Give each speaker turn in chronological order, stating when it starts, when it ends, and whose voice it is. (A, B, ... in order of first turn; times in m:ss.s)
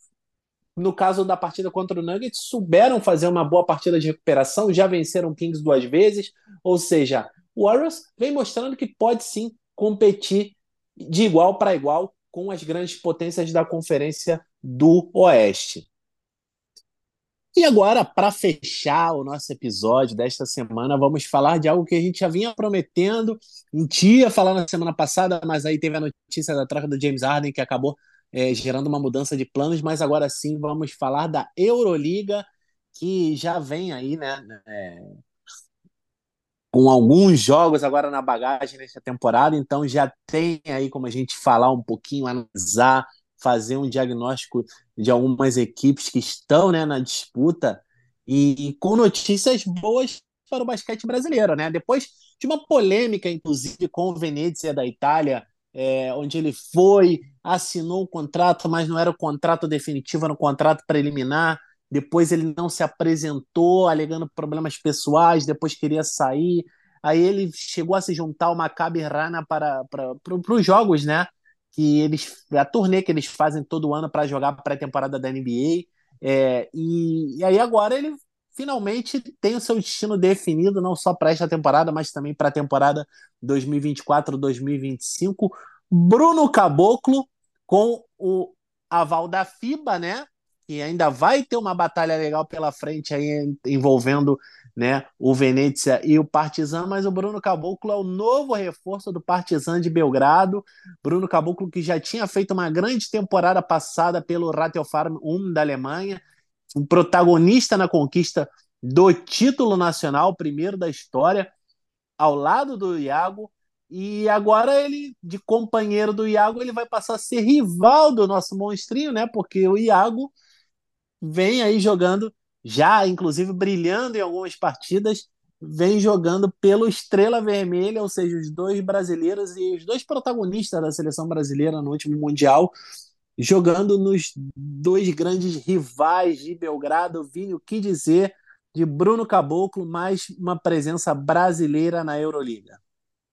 0:00.8-0:15.9 A
0:17.6-0:35.2 A
0:36.7-1:46.2 A
1:46.7-1:51.5 A
1:52.2-2:00.3 A
2:01.2-2:12.7 A
2:13.4-2:22.8 A